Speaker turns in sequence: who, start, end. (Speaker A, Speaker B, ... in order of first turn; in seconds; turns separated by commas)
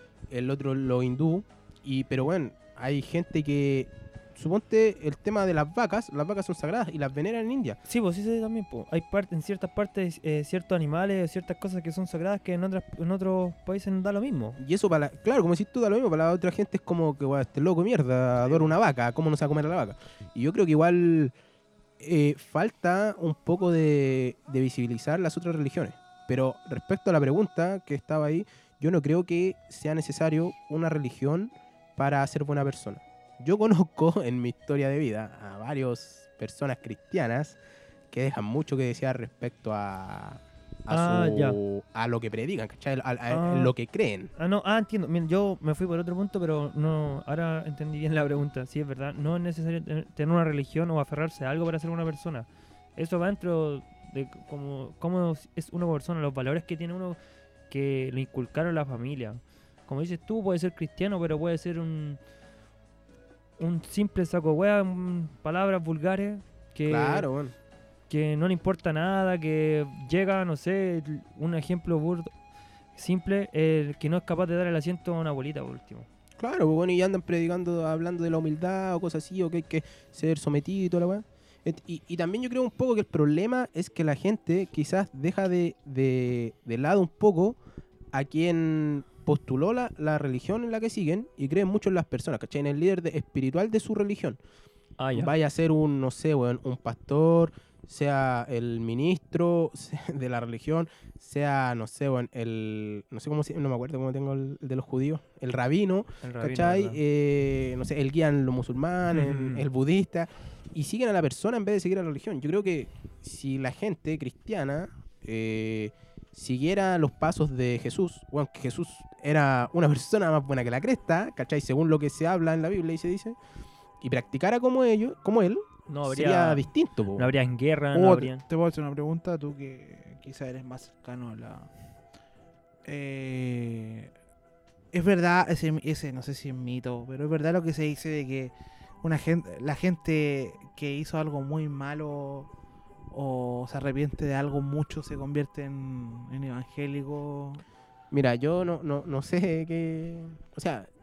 Speaker A: 0.3-7.8, Speaker B: 7.9-14.6, Speaker A: 14.6-21.4, Speaker A: 22.0-37.6, Speaker A: 38.1-44.3, Speaker B: 40.9-41.6, Speaker B: 43.3-43.7, Speaker B: 44.4-57.2, Speaker B: 57.7-62.2, Speaker B: 63.6-67.3, Speaker A: 66.9-67.5, Speaker B: 68.1-72.3, Speaker B: 73.0-76.1, Speaker A: 76.4-87.6, Speaker A: 88.1-94.4, Speaker B: 95.0-95.3, Speaker A: 95.1-123.4, Speaker B: 106.2-107.0, Speaker B: 109.1-109.7, Speaker A: 124.0-127.3, Speaker B: 125.9-128.4, Speaker C: 127.9-131.7, Speaker C: 132.8-134.1, Speaker C: 134.9-142.5, Speaker C: 143.1-147.6, Speaker A: 148.1-150.9